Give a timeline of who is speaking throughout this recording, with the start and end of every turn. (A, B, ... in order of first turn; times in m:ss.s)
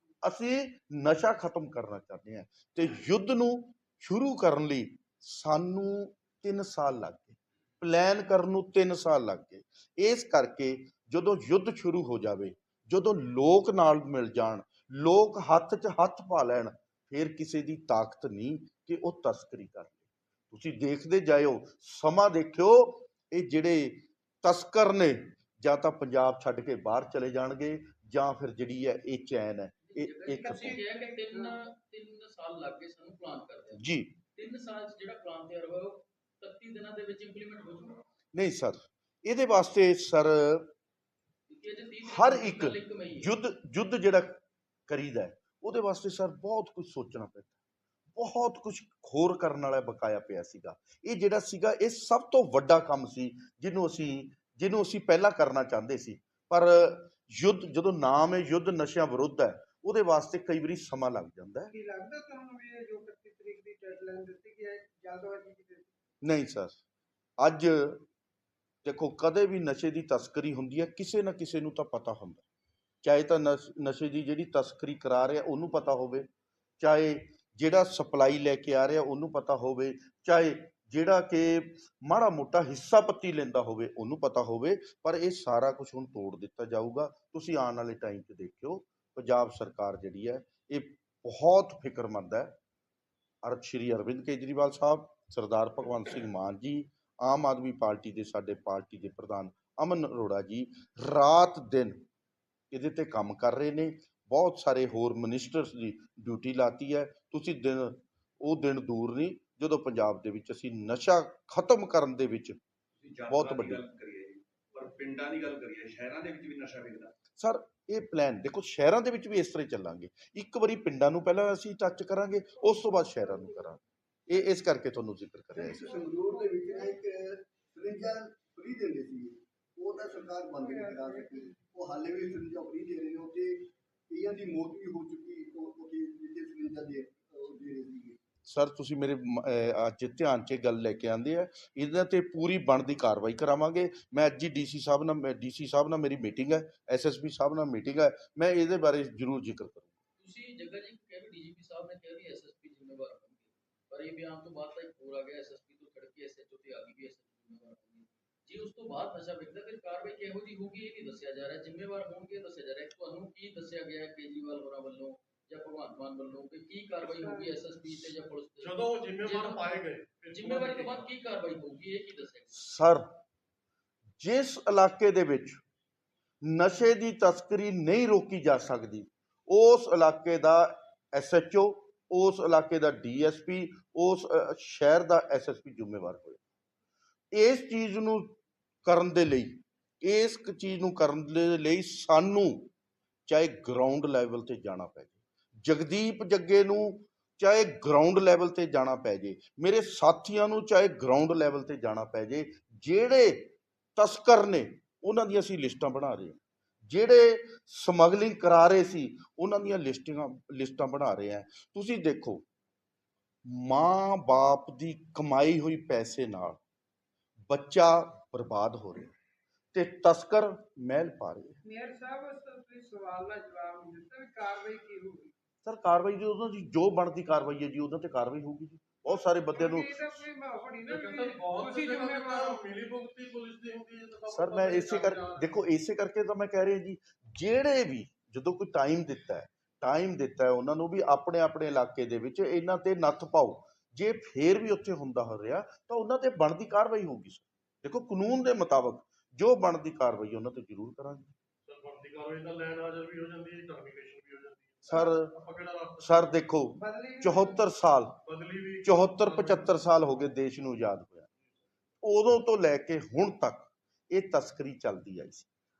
0:00.2-0:30.8 A
0:29.9-0:33.8 B
0:30.4-0:30.8 C
0:31.3-0:31.6 C
0:33.7-0:34.1 A
0:34.3-0:38.0 B
0:38.3-0:40.7 A
0:41.5-0:43.3 B
0:42.1-0:47.6 A
0:48.1-1:01.7 A
1:01.7-1:05.9 C
1:06.2-1:06.8 A
1:07.4-1:08.0 A
1:08.8-1:12.4 A
1:13.0-1:16.3 A
1:16.8-1:32.5 A
1:33.4-1:42.0 A
1:42.7-1:52.6 A
1:53.0-1:57.1 D
1:53.3-1:53.8 A
1:57.4-2:05.9 A
2:02.7-2:03.5 C
2:05.6-2:18.2 E
2:05.7-2:06.9 C
2:10.6-2:11.6 C
2:18.4-2:29.9 A
2:30.2-2:49.8 B
2:47.0-2:47.5 C
2:48.6-2:51.0 F
2:50.3-2:52.6 B
2:52.6-2:53.0 A
2:54.2-2:55.6 A
2:56.4-3:06.4 A
3:07.3-3:12.7 A
3:13.3-3:32.4 A
3:33.4-3:36.6 A
3:37.5-3:39.1 A
3:39.7-3:41.6 A
3:41.6-3:45.3 C
3:45.6-3:50.2 A
3:49.1-3:52.6 C
3:50.8-3:55.5 F
3:54.3-4:11.3 A
4:11.6-4:16.4 F
4:14.8-4:15.3 A
4:16.0-4:18.2 A
4:16.7-4:17.6 C
4:18.2-4:19.8 F
4:18.8-4:21.3 A
4:22.0-4:25.5 A